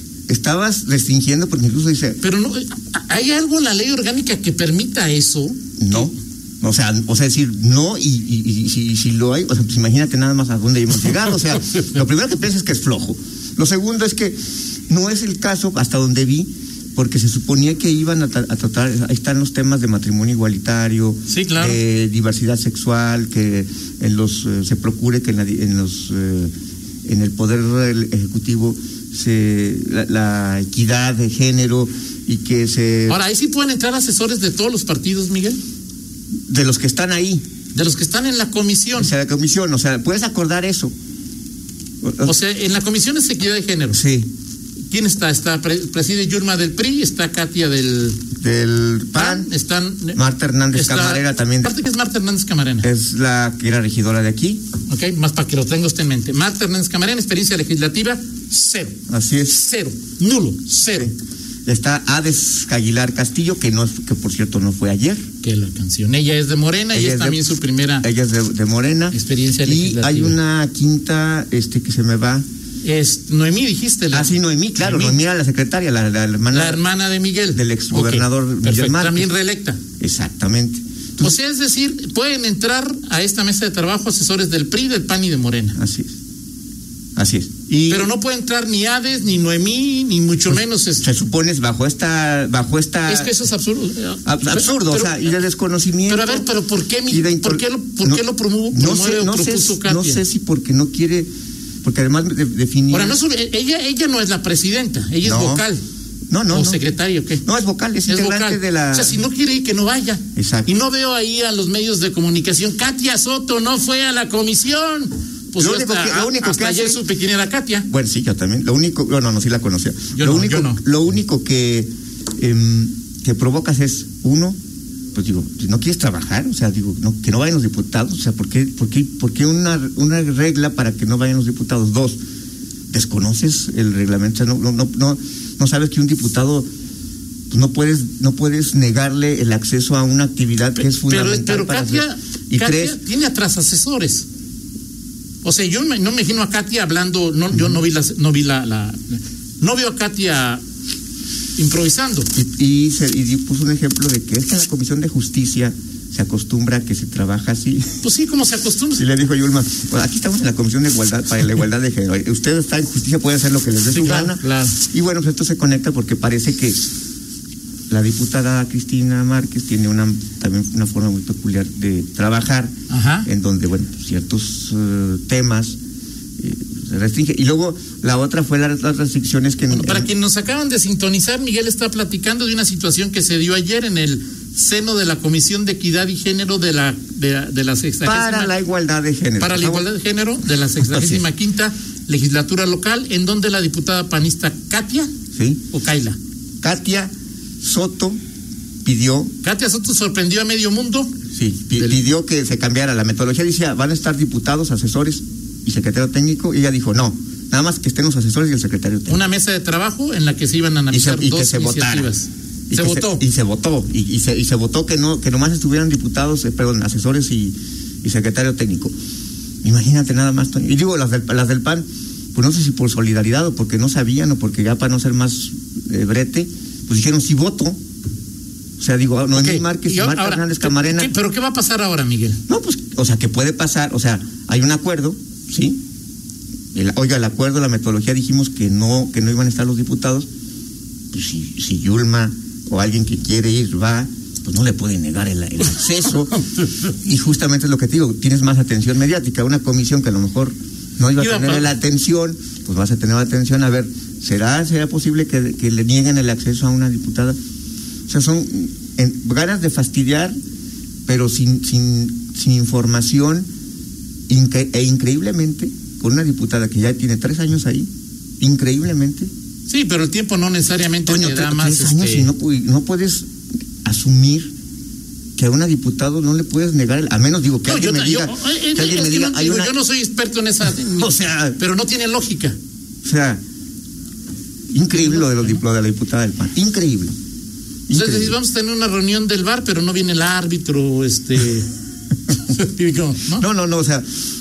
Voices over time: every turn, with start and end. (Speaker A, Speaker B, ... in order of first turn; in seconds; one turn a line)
Speaker A: 0.3-2.2
Speaker B: 2.2-6.1
Speaker A: 5.8-14.4
Speaker A: 14.9-26.5
Speaker B: 21.3-21.8
Speaker A: 27.1-33.2
Speaker B: 33.1-35.6
Speaker A: 36.5-37.4
Speaker B: 37.7-39.1
Speaker A: 38.9-40.9
Speaker A: 42.0-42.4
Speaker B: 42.2-44.0
Speaker A: 43.9-44.3
Speaker B: 44.9-48.2
Speaker A: 48.4-49.5
Speaker B: 49.1-50.2
Speaker A: 50.1-51.8
Speaker B: 50.7-52.9
Speaker A: 52.8-54.6
Speaker B: 54.9-59.0
Speaker A: 59.1-59.6
Speaker B: 59.5-61.1
Speaker A: 60.9-61.1
Speaker A: 61.7-65.2
Speaker B: 65.4-68.1
Speaker A: 66.9-67.4
Speaker A: 68.0-72.5
Speaker B: 69.1-70.4
Speaker B: 72.8-75.2
Speaker A: 74.1-76.8
Speaker B: 76.5-79.8
Speaker A: 77.5-79.3
Speaker A: 80.0-81.4
Speaker B: 81.2-85.8
Speaker A: 85.8-86.1
Speaker A: 87.2-88.1
Speaker B: 87.9-91.1
Speaker A: 90.5-93.3
Speaker B: 93.1-95.4
Speaker A: 94.2-96.5
Speaker B: 96.1-100.2
Speaker A: 97.1-101.3
Speaker A: 101.8-103.2
Speaker B: 102.9-105.8
Speaker A: 105.2-105.7
Speaker A: 106.3-106.8
Speaker B: 106.5-107.4
Speaker A: 107.4-109.2
Speaker B: 108.1-117.9
Speaker A: 110.4-110.7
Speaker A: 115.6-117.0
Speaker A: 117.9-124.6
Speaker B: 120.2-120.8
Speaker A: 125.1-132.2
Speaker A: 132.9-136.7
Speaker A: 137.5-143.0
Speaker B: 140.8-144.3
Speaker B: 145.4-150.6
Speaker A: 147.5-147.8
Speaker B: 151.6-152.3
Speaker A: 152.3-158.0
Speaker B: 158.0-159.0
Speaker A: 159.0-166.9
Speaker B: 163.9-164.8
Speaker A: 167.9-172.7
Speaker B: 172.9-173.3
Speaker A: 173.2-175.8
Speaker A: 176.4-180.1
Speaker B: 179.7-188.5
Speaker A: 188.0-189.9
Speaker B: 189.4-195.1
Speaker A: 190.8-191.2
Speaker A: 195.3-195.6
Speaker B: 195.7-196.2
Speaker A: 196.6-198.2
Speaker A: 198.8-199.3
Speaker B: 199.4-201.2
Speaker A: 201.3-209.3
Speaker B: 201.8-202.1
Speaker B: 209.1-213.2
Speaker A: 210.9-212.1
Speaker A: 212.7-218.9
Speaker A: 219.6-227.8
Speaker A: 228.8-231.1
Speaker B: 229.3-232.4
Speaker A: 232.5-235.8
Speaker A: 236.7-240.3
Speaker A: 241.1-246.3
Speaker B: 245.7-246.9
Speaker A: 247.0-257.4
Speaker B: 251.2-251.7
Speaker A: 258.1-260.4
Speaker A: 261.1-263.5
Speaker A: 264.3-267.9
Speaker A: 268.4-269.3
Speaker B: 269.7-272.3
Speaker A: 271.1-273.3
Speaker A: 273.9-274.5
Speaker A: 275.4-279.7
Speaker B: 277.6-282.6
Speaker A: 280.9-281.6
Speaker A: 283.0-283.4
Speaker A: 284.7-287.1
Speaker B: 284.9-285.6
Speaker A: 287.9-288.4
Speaker B: 287.9-291.7
Speaker B: 292.3-293.4
Speaker A: 293.4-294.1